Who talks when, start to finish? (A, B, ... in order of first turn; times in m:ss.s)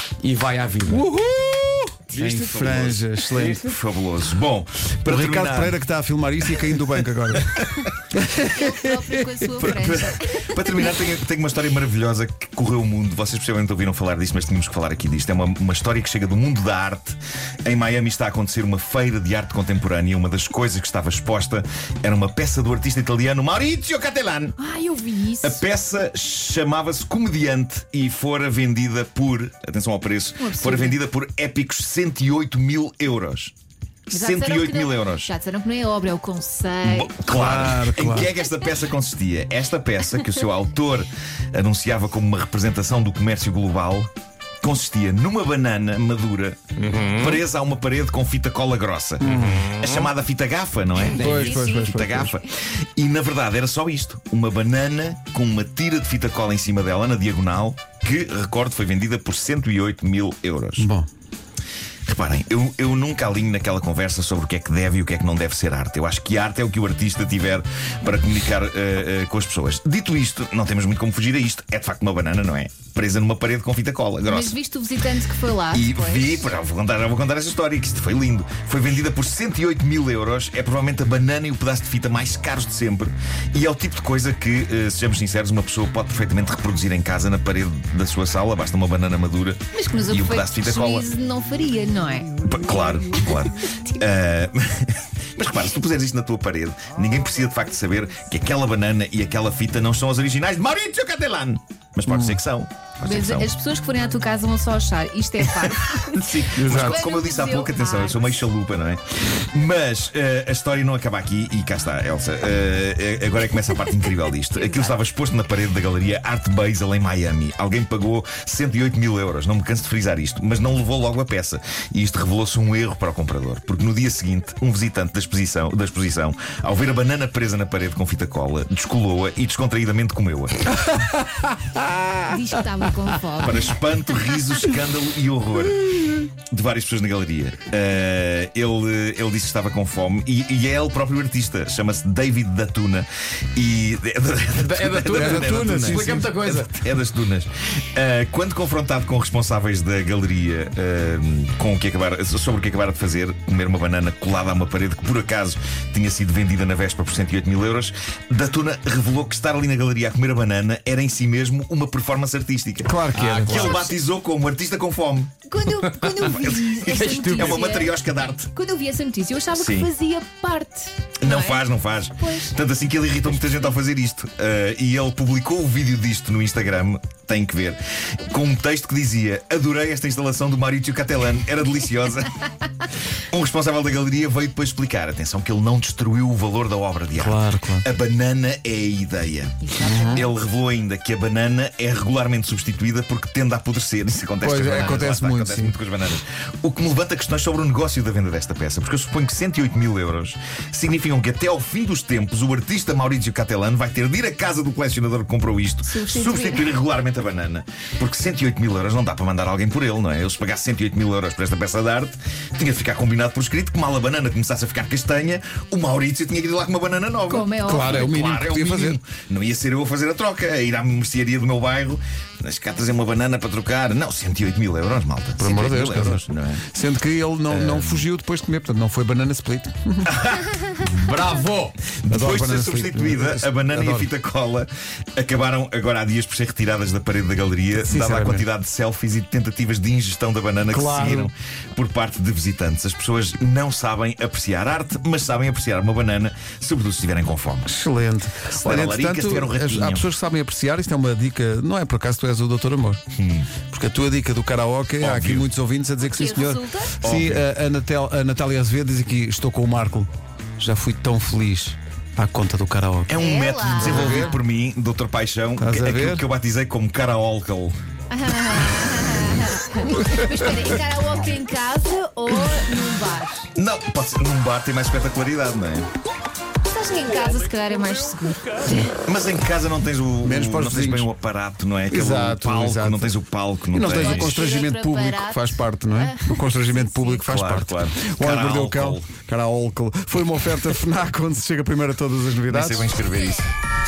0:00.2-0:01.0 A
0:00.9-0:03.7 B
0:02.1-0:05.8 C
0:02.1-0:02.5 A
0:05.1-0:07.6 B
0:07.4-0:07.8 C
0:08.1-0:08.7 B
0:08.4-0:10.5 D
0:09.6-0:24.6 C
0:24.6-0:25.6 D
0:25.4-0:33.5 C
0:30.4-0:31.0 D
0:34.1-0:35.3 C
0:34.1-0:37.2 D
0:36.8-0:44.1 C
0:37.3-0:38.3 B
0:44.6-1:00.9 C
0:46.9-0:47.2 A
0:49.2-0:49.8 B
0:51.2-0:52.3 B
0:51.2-0:51.9 D
1:00.8-1:01.1 B
1:02.1-1:14.6 C
1:14.3-1:16.5 D
1:15.7-1:31.1 C
1:29.7-1:32.4 D
1:32.4-1:43.5 C
1:42.1-1:42.4 B
1:43.0-1:48.3 D
1:45.6-2:10.7 C
1:46.6-1:47.0 B
1:54.5-1:55.0 D
2:10.9-2:12.3 B
2:12.3-2:13.8 D
2:13.4-2:45.3 C
2:24.6-2:26.7 A
2:25.1-2:26.3 B
2:42.8-2:43.7 B
2:43.2-2:43.8 A
2:45.5-2:47.9 D
2:45.8-2:47.7 A
2:47.3-2:48.5 C
2:48.5-2:51.6 D
2:49.6-2:49.9 C
2:51.2-3:02.4 C
2:52.2-2:52.6 D
3:03.3-3:46.6 C
3:07.2-3:07.9 B
3:09.6-3:10.3 D
3:09.8-3:10.2 B
3:14.4-3:15.8 B
3:25.9-3:26.7 D
3:37.3-3:38.1 D
3:37.6-3:39.0 B
3:45.4-3:50.1 B
3:47.5-3:48.0 C
3:50.1-3:50.7 C
3:50.8-3:51.8 A
3:52.0-4:07.7 C
3:52.1-3:54.1 B
3:57.8-3:58.4 B
4:00.7-4:01.3 B
4:07.7-4:13.0 B
4:08.6-4:10.1 C
4:13.1-4:13.5 C
4:13.7-4:23.2 B
4:15.0-4:15.5 C
4:16.0-4:17.0 D
4:17.0-4:17.4 C
4:23.1-4:27.8 C
4:23.1-4:24.3 D
4:23.8-4:24.4 B
4:25.6-4:26.2 B
4:28.1-4:33.5 D
4:33.6-4:35.9 C
4:36.7-4:38.9 D
4:39.0-4:44.4 C
4:40.2-4:41.1 B
4:41.9-4:43.1 B
4:43.7-4:52.9 B
4:43.8-4:47.3 D
4:47.3-4:49.1 C
4:52.5-4:53.5 C